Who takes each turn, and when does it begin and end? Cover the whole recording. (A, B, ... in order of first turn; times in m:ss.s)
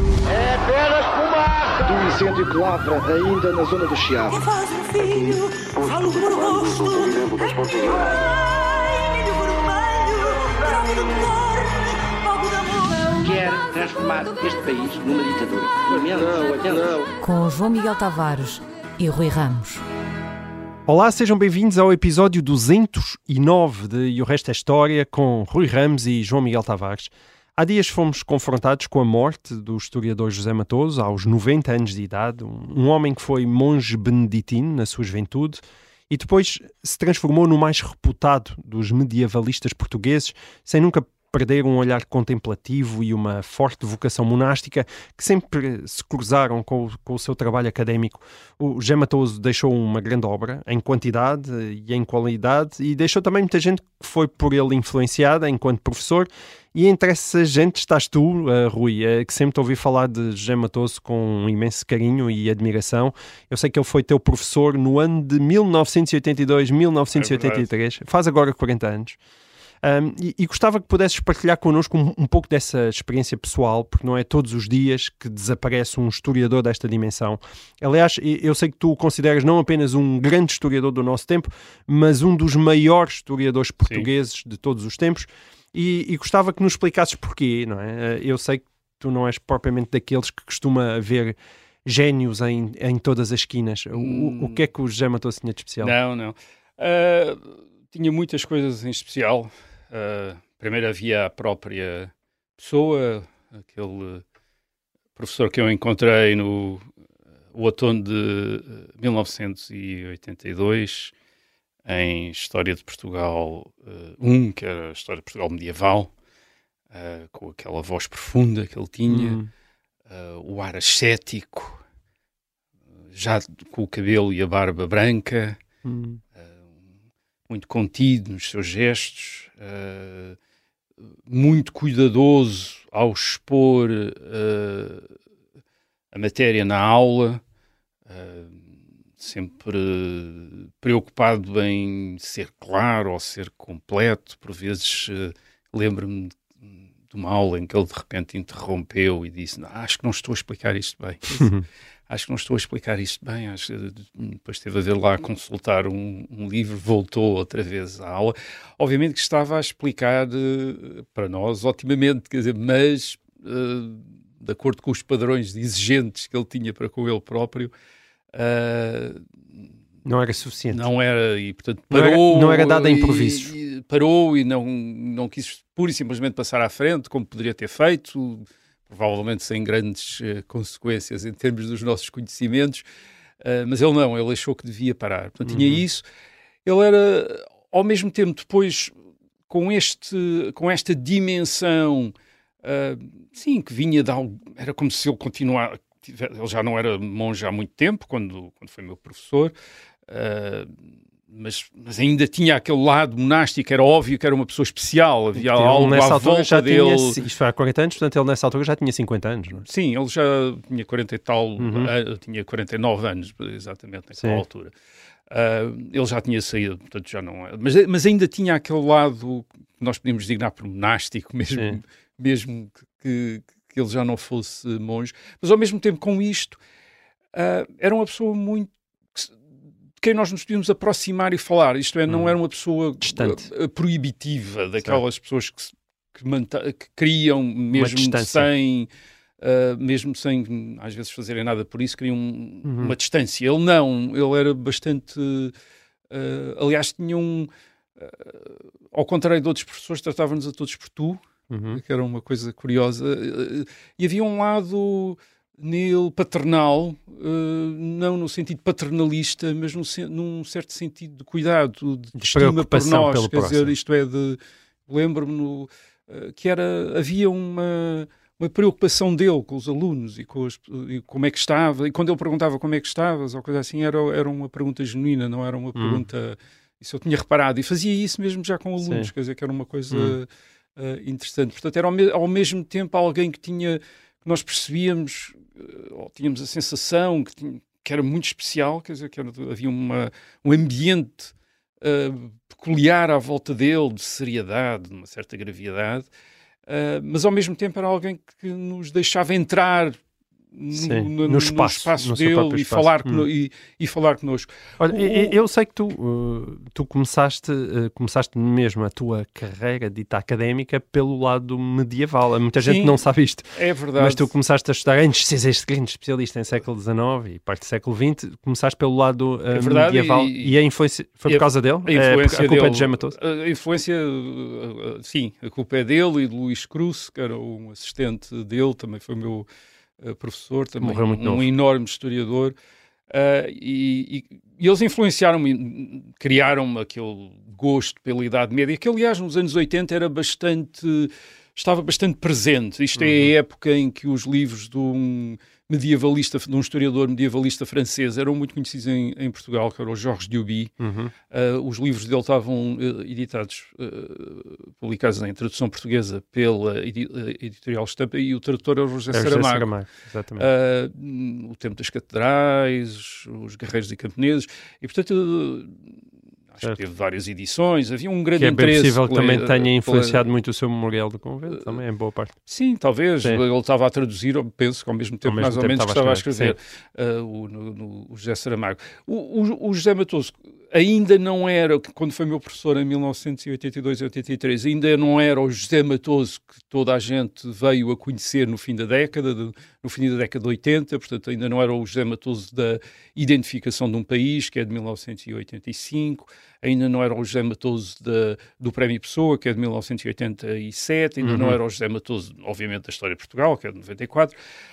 0:00.6-0:01.0 A
0:01.8-0:04.4 A
0:04.7-0:07.4 B
0:13.1-0:17.0 C
0:16.2-0:17.0 A
0:17.2-0:19.8 D
0:20.9-1:09.2 E
1:07.1-1:07.7 F
1:09.8-1:36.0 E
1:33.9-1:34.6 F
1:35.8-1:44.2 F
1:45.2-1:46.8 F
1:47.5-1:51.1 F
1:51.8-1:56.1 F
1:56.9-1:59.4 F
1:59.1-1:59.5 E
2:00.1-2:01.8 F
2:03.1-2:05.6 F
2:05.8-2:06.2 E
2:07.5-2:10.4 F
2:11.3-2:15.0 F
2:16.1-2:17.4 F
2:18.1-2:18.6 F
2:19.2-2:26.4 F
2:27.1-2:31.5 F
2:31.3-2:31.6 E
2:32.1-2:47.7 F
2:48.3-2:49.2 F
2:50.0-2:50.9 E
2:50.7-3:02.8 F
2:51.9-2:53.5 E
3:03.4-3:06.0 F
3:05.4-3:05.8 E
3:06.6-3:08.9 F
3:09.5-3:19.5 F
3:20.1-3:20.7 F
3:21.3-3:27.2 F
3:25.4-3:29.6 E
3:29.6-3:34.7 F
3:31.6-3:31.9 E
3:34.2-3:34.4 E
3:35.3-3:46.6 F
3:41.5-3:41.8 E
3:47.3-3:49.3 F
3:50.0-3:58.9 F
3:52.1-3:52.4 E
3:53.0-3:53.5 E
3:57.7-3:58.5 E
3:59.4-4:05.5 F
4:02.6-4:03.0 E
4:06.1-4:56.1 F
4:11.5-4:11.8 E
4:22.1-4:23.7 E
4:35.8-4:36.0 E
4:38.8-4:39.1 E
4:39.9-4:40.2 E
4:56.7-5:00.0 F
5:00.5-5:05.4 F
5:00.7-5:03.3 E
5:04.8-5:23.2 E
5:12.6-5:13.0 F
5:13.5-5:14.3 F
5:19.5-5:20.6 F
5:21.3-5:29.4 F
5:30.0-5:32.5 F
5:30.8-5:31.5 E
5:33.1-5:50.7 F
5:43.0-5:43.3 E
5:50.8-5:51.1 E
5:51.3-5:59.7 F
5:59.1-6:00.5 E
6:00.4-6:05.8 F
6:06.5-6:10.2 F
6:08.3-6:12.4 E
6:12.5-6:44.4 F
6:15.2-6:16.6 E
6:41.2-6:41.6 E